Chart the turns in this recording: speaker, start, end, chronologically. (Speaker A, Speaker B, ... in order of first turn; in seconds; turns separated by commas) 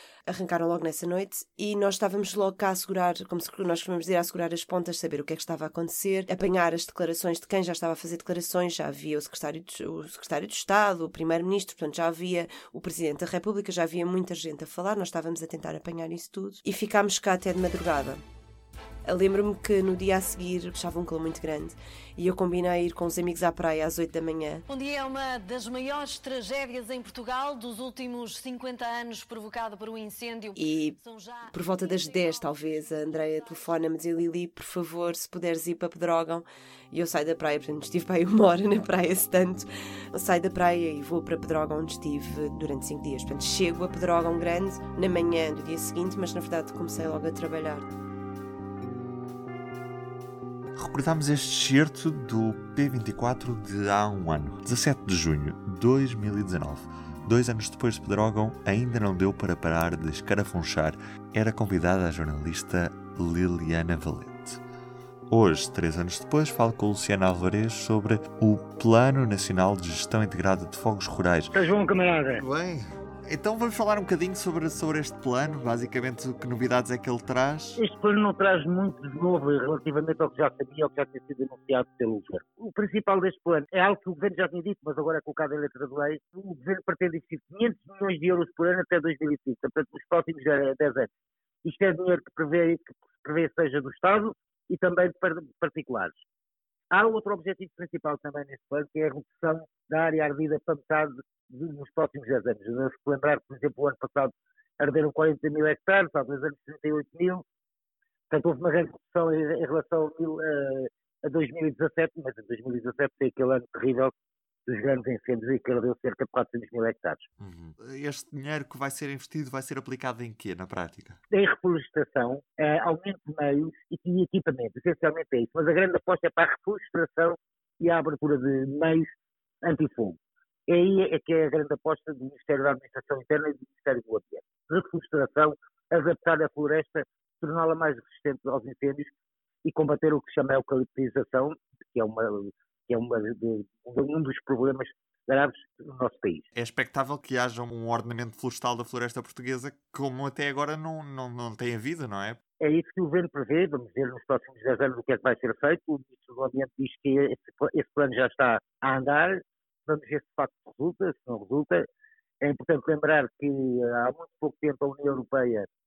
Speaker A: 0.3-18.2, Speaker A: 19.0-24.6, Speaker B: 24.7-33.7, Speaker A: 30.6-31.0, Speaker A: 31.5-47.9, Speaker C: 50.8-64.6, Speaker C: 65.3-71.5, Speaker D: 71.5-72.4, Speaker C: 72.3-77.8, Speaker D: 77.8-91.1, Speaker D: 91.6-96.1, Speaker D: 96.9-107.4, Speaker D: 108.3-114.1, Speaker D: 114.7-117.2, Speaker C: 117.4-121.2, Speaker D: 121.3-129.1, Speaker D: 129.6-139.1, Speaker D: 139.6-146.4, Speaker C: 146.5-152.4, Speaker D: 152.6-161.8, Speaker D: 162.4-165.7